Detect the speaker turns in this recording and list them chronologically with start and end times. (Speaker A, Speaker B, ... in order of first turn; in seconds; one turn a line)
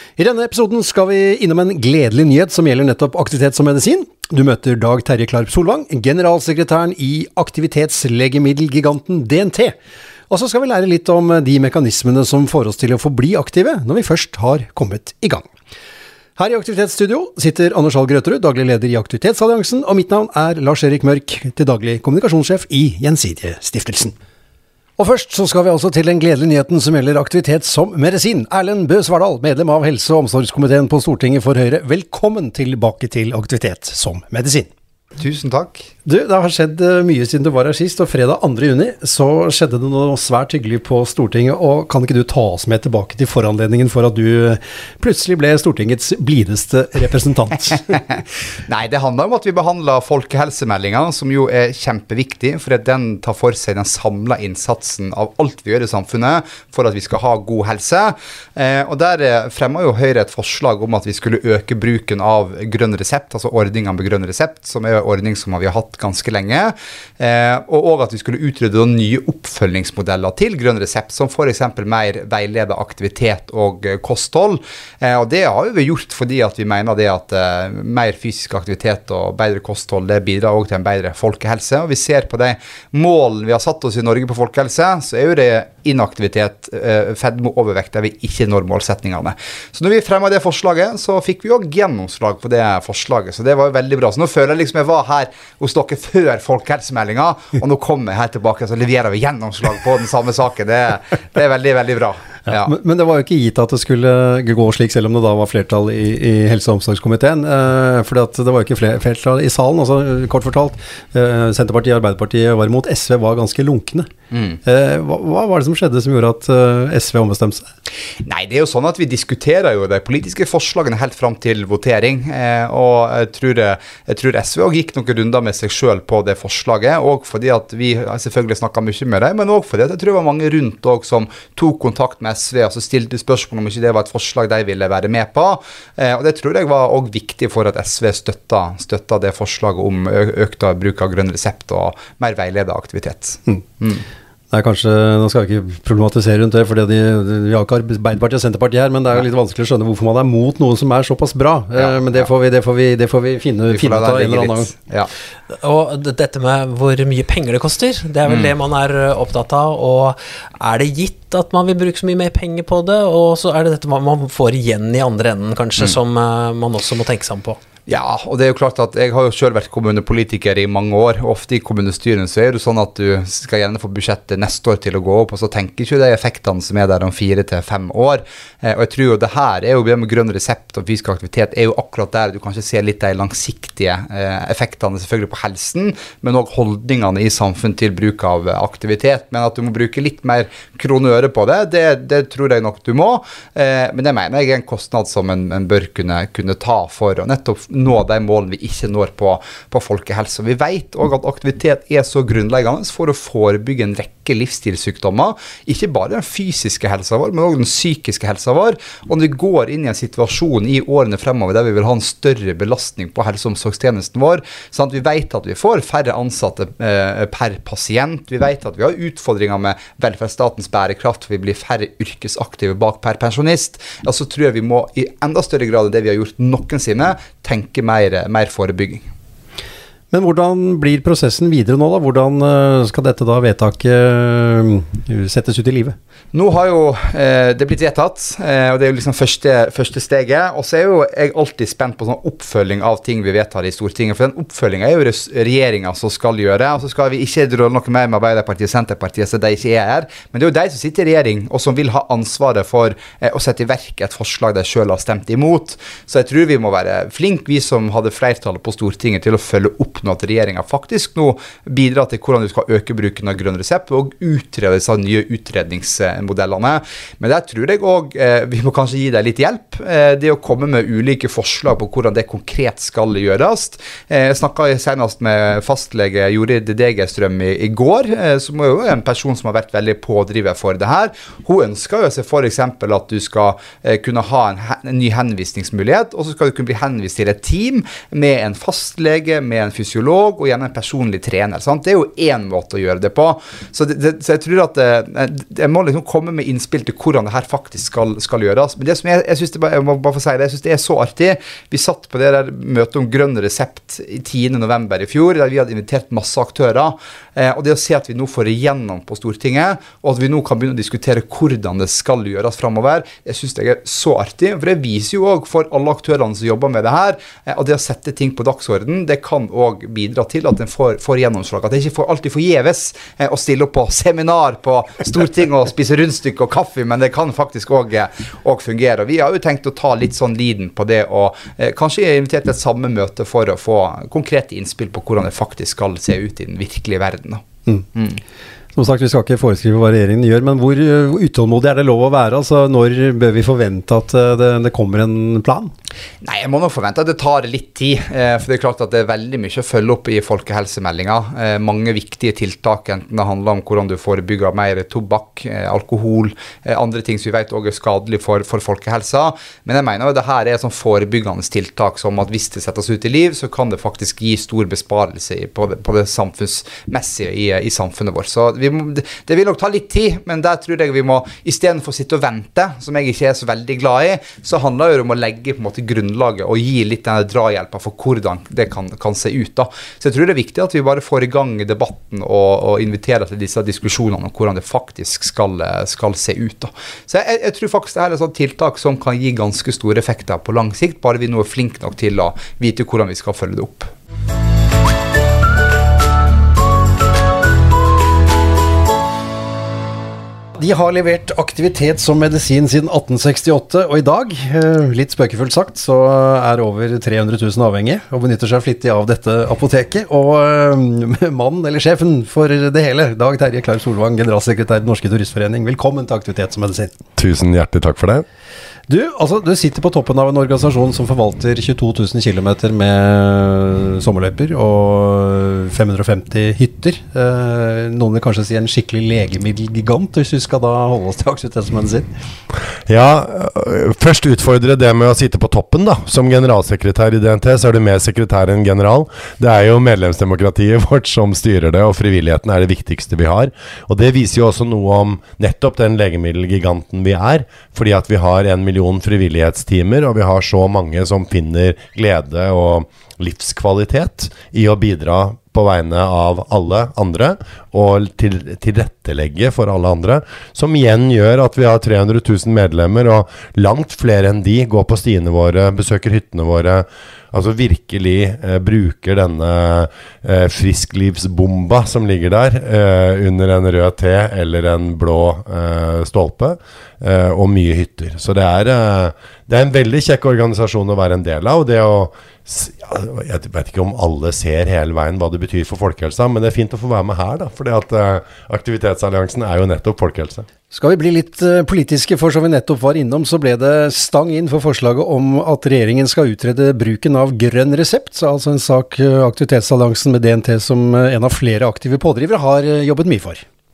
Speaker A: 0.2-9.8
Speaker A: 10.3-15.5
Speaker A: 16.4-24.1
Speaker A: 25.0-34.7
Speaker B: 35.2-35.9
Speaker A: 36.0-48.0
Speaker B: 48.7-102.7
Speaker A: 102.5-114.1
Speaker B: 114.3-114.6
Speaker A: 114.6-117.6
Speaker B: 118.2-144.0
Speaker A: 144.5-154.7
Speaker B: 151.8-152.2
Speaker B: 153.7-155.1
Speaker C: 155.5-167.6
Speaker B: 167.9-229.0
Speaker A: 230.1-235.9
Speaker B: 236.3-338.2
Speaker A: 338.7-345.7
Speaker B: 346.2-393.9
Speaker A: 400.6-416.9
Speaker D: 417.1-418.2
Speaker A: 418.9-432.1
Speaker D: 432.9-490.5
Speaker A: 490.7-503.4